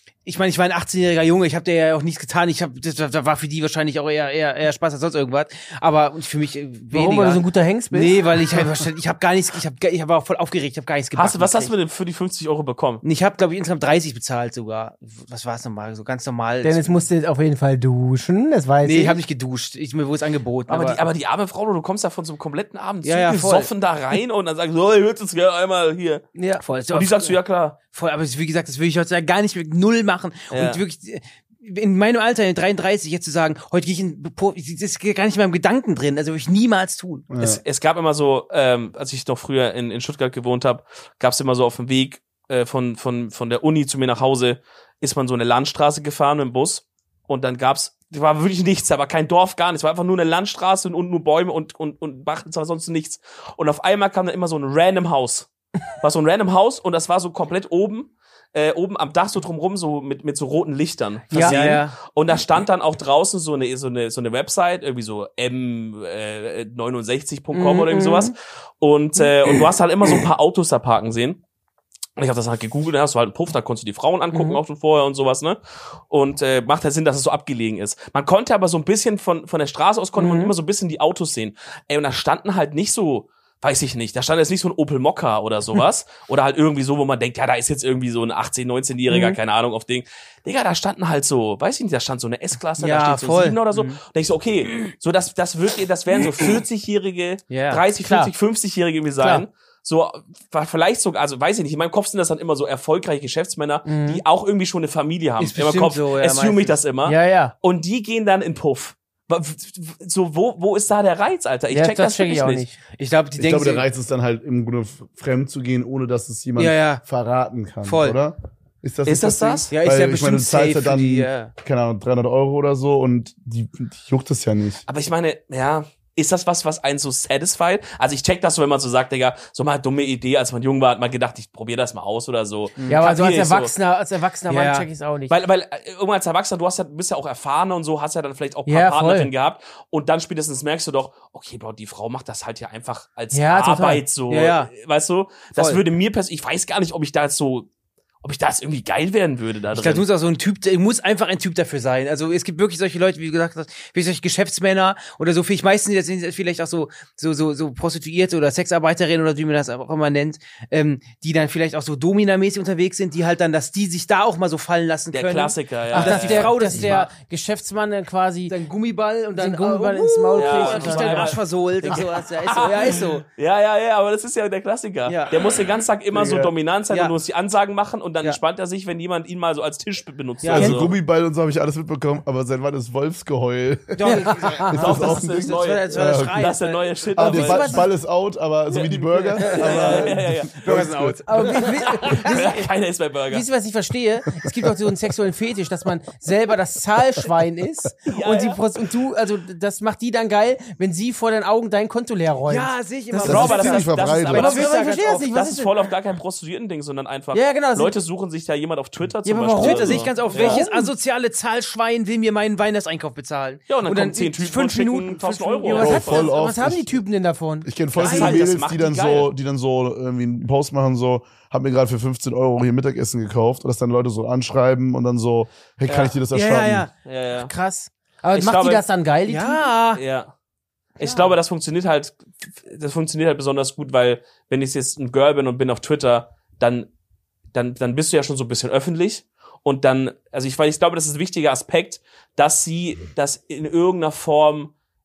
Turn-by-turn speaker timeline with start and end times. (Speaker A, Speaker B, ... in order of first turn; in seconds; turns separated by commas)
Speaker A: 0.2-11.7, Speaker B: 6.9-8.7, Speaker C: 11.1-13.0, Speaker A: 13.0-17.0, Speaker B: 16.6-19.2, Speaker A: 18.8-21.0, Speaker C: 20.7-26.2, Speaker A: 23.0-23.7, Speaker B: 26.4-26.6, Speaker A: 26.6-27.4, Speaker C: 26.9-27.8, Speaker A: 27.9-37.3, Speaker C: 30.5-30.8, Speaker D: 37.3-37.6, Speaker C: 37.4-71.4, Speaker B: 61.3-61.6, Speaker A: 61.3-62.0, Speaker B: 67.5-68.3, Speaker C: 72.2-112.7, Speaker B: 74.3-74.6, Speaker B: 80.2-80.5, Speaker B: 89.1-89.4, Speaker A: 92.8-94.0, Speaker A: 97.5-98.0, Speaker A: 99.2-99.4, Speaker B: 103.8-104.2, Speaker A: 105.4-106.8, Speaker B: 107.0-107.5, Speaker B: 111.7-112.8, Speaker A: 112.9-113.8, Speaker D: 113.4-124.8, Speaker A: 116.5-117.0, Speaker A: 117.8-118.2, Speaker C: 119.0-119.7, Speaker A: 119.7-121.5, Speaker C: 124.9-133.7, Speaker B: 132.9-135.3, Speaker A: 134.5-134.9, Speaker C: 135.3-147.7, Speaker B: 138.7-139.3, Speaker B: 143.3-144.0, Speaker A: 144.3-144.7, Speaker A: 145.5-145.8, Speaker C: 148.2-150.0, Speaker A: 149.7-167.1, Speaker C: 165.1-166.9, Speaker B: 165.9-168.6, Speaker A: 168.5-173.2, Speaker B: 169.3-172.0, Speaker C: 170.3-180.9, Speaker B: 172.6-173.0, Speaker A: 175.1-175.5, Speaker D: 176.1-176.5, Speaker A: 176.9-177.1, Speaker A: 180.4-180.8, Speaker D: 180.5-186.5, Speaker A: 183.9-186.8, Speaker B: 184.0-184.9, Speaker C: 184.7-187.8, Speaker D: 187.1-191.5, Speaker B: 187.2-187.9, Speaker C: 188.7-190.6, Speaker A: 189.4-192.3, Speaker B: 191.3-192.6, Speaker C: 191.8-193.4, Speaker B: 193.3-203.7, Speaker C: 198.1-198.6, Speaker A: 202.4-205.2, Speaker C: 203.2-210.6, Speaker D: 203.2-204.6, Speaker B: 204.3-205.7, Speaker B: 207.3-207.9, Speaker B: 209.2-210.9, Speaker A: 209.6-216.1, Speaker C: 213.7-216.3, Speaker B: 215.7-217.7, Speaker D: 215.8-217.0, Speaker D: 217.6-226.9, Speaker C: 217.9-219.3, Speaker A: 218.0-218.4, Speaker A: 225.9-226.9, Speaker C: 227.0-227.5, Speaker B: 227.3-229.7, Speaker C: 228.3-228.8, Speaker A: 229.3-230.0, Speaker C: 229.9-230.3, Speaker C: 231.0-236.9, Speaker A: 231.0-231.3, Speaker C: 237.5-244.7